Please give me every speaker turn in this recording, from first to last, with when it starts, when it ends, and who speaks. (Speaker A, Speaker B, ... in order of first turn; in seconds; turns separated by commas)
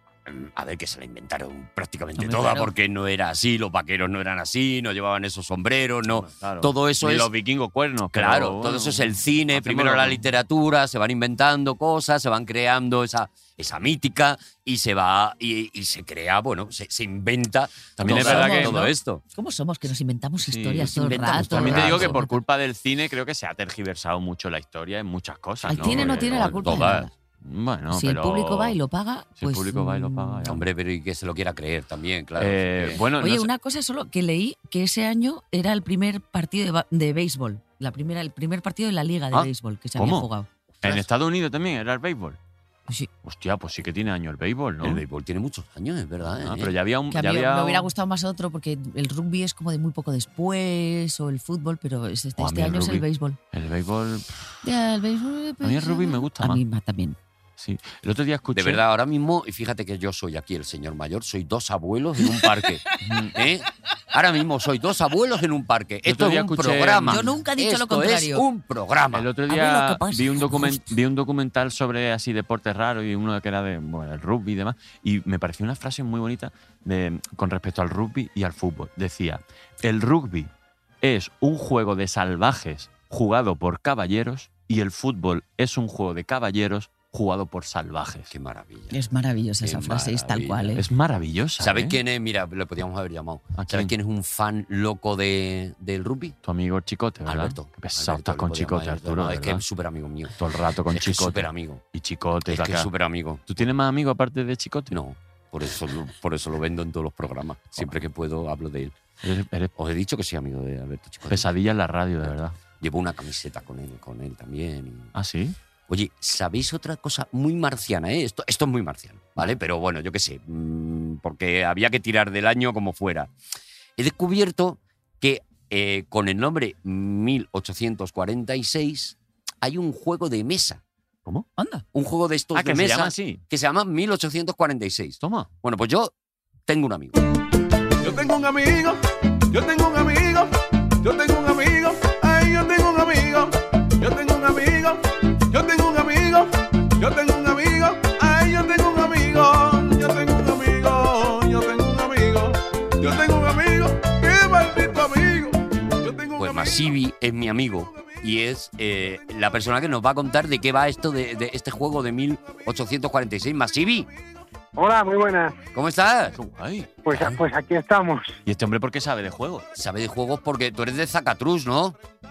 Speaker A: 0.3-7.3, Speaker B: 2.2-2.6, Speaker B: 6.1-10.2, Speaker A: 8.1-19.2, Speaker B: 18.0-18.8, Speaker C: 18.0-22.4, Speaker B: 20.4-28.8, Speaker A: 21.0-22.2, Speaker A: 25.6-27.1, Speaker C: 25.6-27.1, Speaker C: 27.9-30.5, Speaker B: 29.4-30.6, Speaker A: 30.4-33.0, Speaker B: 32.4-33.5, Speaker C: 33.2-40.5, Speaker B: 40.0-40.3, Speaker B: 40.8-42.4, Speaker B: 43.2-45.0, Speaker A: 44.8-46.7, Speaker B: 46.4-47.9, Speaker C: 47.1-53.4, Speaker B: 52.4-54.6, Speaker C: 54.6-57.2, Speaker B: 55.6-56.6, Speaker B: 57.6-58.8, Speaker A: 58.5-69.3, Speaker C: 62.3-62.5, Speaker B: 63.0-63.4, Speaker B: 66.1-67.3, Speaker C: 67.1-68.5, Speaker B: 69.1-80.5, Speaker C: 69.5-70.9, Speaker B: 81.0-88.3, Speaker A: 88.3-89.0, Speaker C: 88.9-90.8, Speaker A: 89.6-90.8, Speaker B: 90.8-92.0, Speaker A: 91.6-96.4, Speaker B: 93.5-93.9, Speaker B: 96.5-99.6, Speaker A: 97.2-101.8, Speaker B: 100.4-102.9, Speaker A: 102.5-103.5, Speaker B: 103.5-105.0, Speaker A: 104.9-109.0, Speaker B: 109.2-109.7, Speaker A: 109.8-111.5, Speaker B: 111.3-112.6, Speaker A: 112.2-115.1, Speaker B: 115.2-115.6, Speaker A: 115.9-123.3, Speaker A: 124.0-130.8, Speaker C: 131.6-131.8, Speaker A: 131.9-136.1, Speaker B: 132.6-133.4, Speaker B: 135.2-135.5, Speaker A: 136.7-137.2, Speaker D: 138.0-139.0, Speaker D: 139.5-140.5, Speaker D: 141.0-157.0, Speaker A: 156.4-164.1, Speaker E: 164.8-165.5, Speaker A: 165.7-166.4, Speaker B: 166.4-167.4, Speaker E: 167.1-168.4, Speaker B: 168.5-169.7, Speaker A: 169.8-172.0